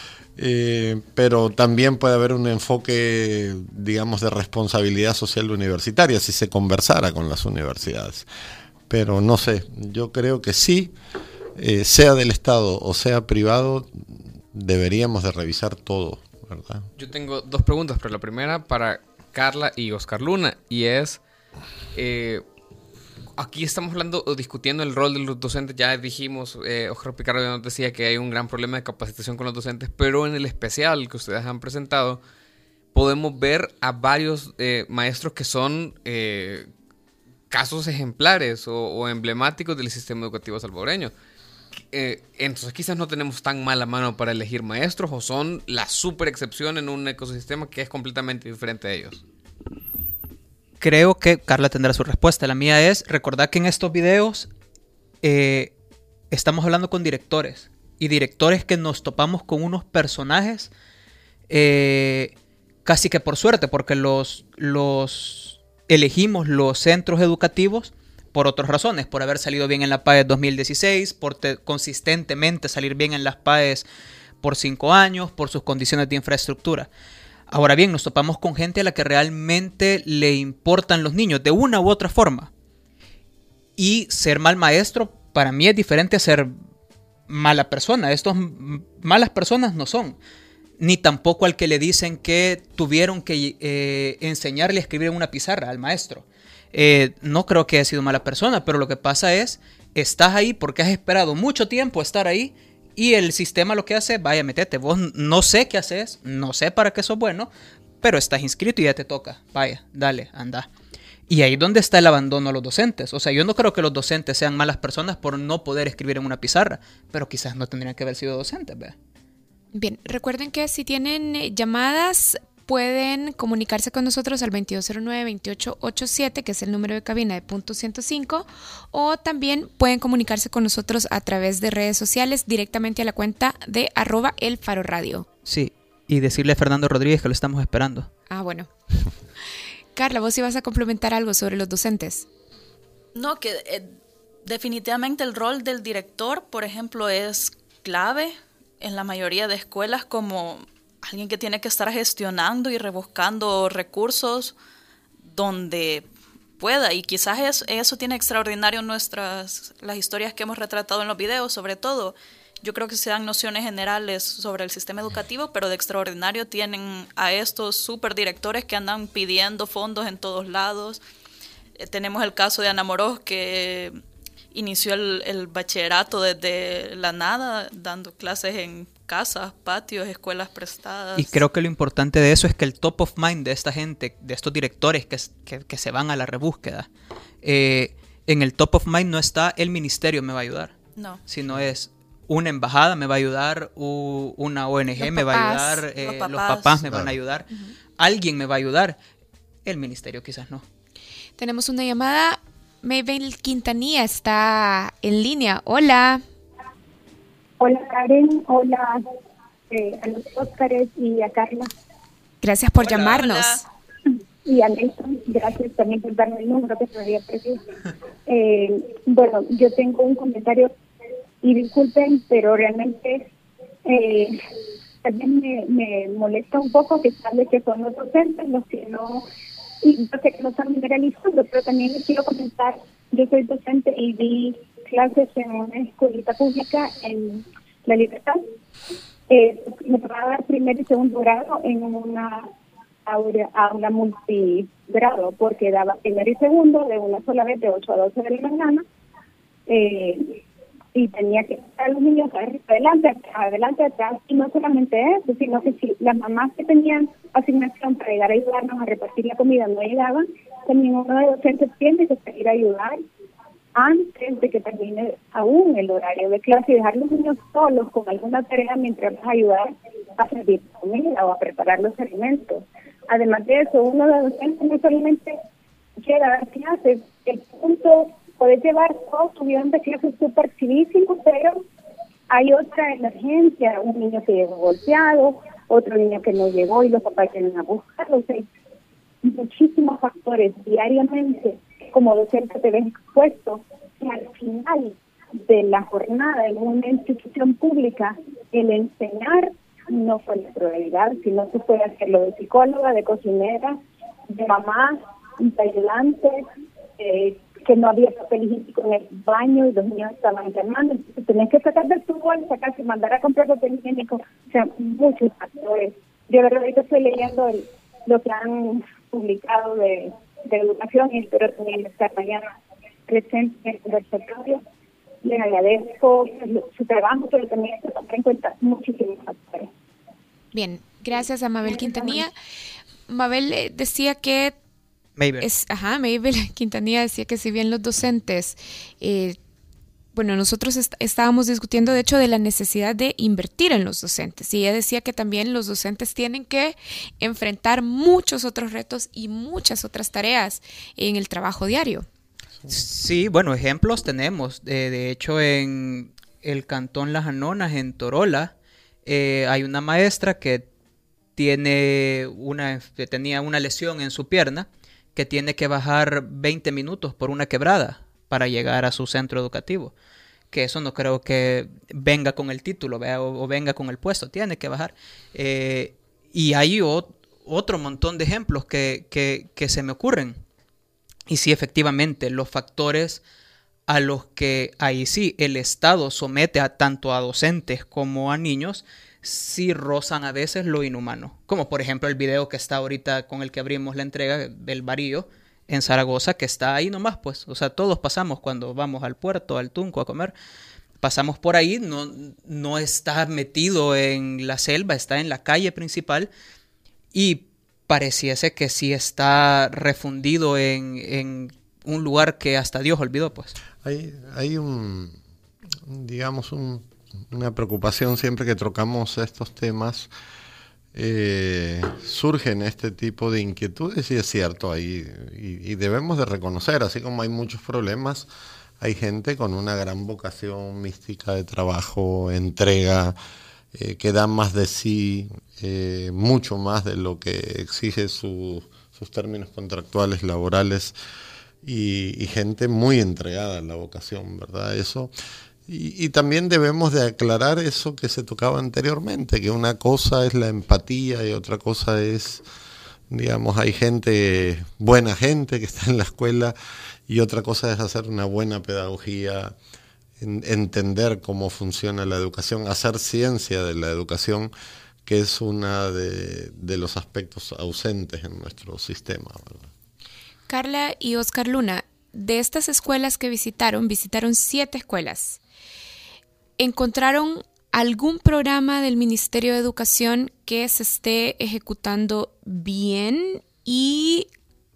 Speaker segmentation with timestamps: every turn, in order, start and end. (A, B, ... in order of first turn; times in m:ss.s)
0:00.4-0:08.3 A
0:08.9-0:10.9 A
0:11.6-0:16.9 A
0:17.0-0:21.2 B
0:21.9-0:22.4 B
0:23.4-0:32.2 B
0:32.9-0:36.7 B
0:37.5-0:41.1 B
0:41.9-0:49.2 B
0:50.8-0:54.5 C
0:55.2-0:55.7 C
0:56.3-1:00.7 C
1:01.5-1:02.3 C
1:02.8-1:13.8 C
1:14.4-1:16.9 C
1:17.5-1:22.5 C
1:23.8-1:26.5 C
1:27.3-1:30.2 C
1:30.8-1:47.5 C
1:48.0-1:50.7 C
1:51.3-1:58.9 C
1:59.7-2:15.3 D
2:15.4-2:18.1 C
2:18.3-2:18.7 D
2:20.0-2:22.2 D
2:23.1-2:23.9 E
2:24.4-2:34.5 E
2:35.3-2:36.1 E
2:36.6-2:51.0 E
2:51.8-2:54.0 E
2:54.5-3:01.4 E
3:01.2-3:06.9 C
3:07.4-3:10.7 C
3:11.3-3:17.5 C
3:15.0-3:15.8 D
3:16.0-3:16.8 E
3:16.8-3:17.1 A
3:18.0-3:19.0 C
3:19.6-3:20.6 C
3:21.4-3:26.2 D
3:27.6-3:29.0 F
3:29.7-3:31.7 F
3:32.4-3:33.6 D
3:32.8-3:33.6 E
3:34.4-3:37.6 F
3:38.3-3:40.7 F
3:41.4-3:43.2 F
3:43.8-3:44.4 F
3:45.0-3:49.3 F
3:49.8-3:58.4 F
3:59.3-4:02.5 F
4:03.0-4:08.8 F
4:09.7-4:10.4 F
4:10.9-4:23.0 F
4:23.8-4:35.4 F
4:36.0-4:41.6 F
4:42.3-4:48.4 F
4:49.2-5:06.4 F
5:07.0-5:22.5 F
5:23.1-5:24.6 F
5:25.2-5:29.7 F
5:30.5-5:32.3 D
5:31.9-5:32.2 F
5:33.1-5:34.5 D
5:35.2-5:35.4 C
5:35.4-5:39.4 D
5:40.1-5:52.0 D
5:52.7-5:58.5 C
5:59.0-6:00.7 C
6:01.4-6:09.9 C
6:10.5-6:20.4 C
6:21.3-6:23.2 C
6:23.9-6:40.3 C
6:41.0-6:46.3 C
6:47.1-6:53.6 C
6:53.8-6:55.2 A
6:55.8-7:00.1 A
7:00.9-7:08.3 A
7:08.8-7:13.2 A
7:13.7-7:20.9 A
7:21.6-7:25.1 A
7:25.7-7:32.4 A
7:33.1-7:36.5 A
7:37.1-7:39.5 A
7:40.2-7:44.5 A
7:45.0-7:49.7 A
7:50.5-7:55.4 D
7:56.6-8:04.3 D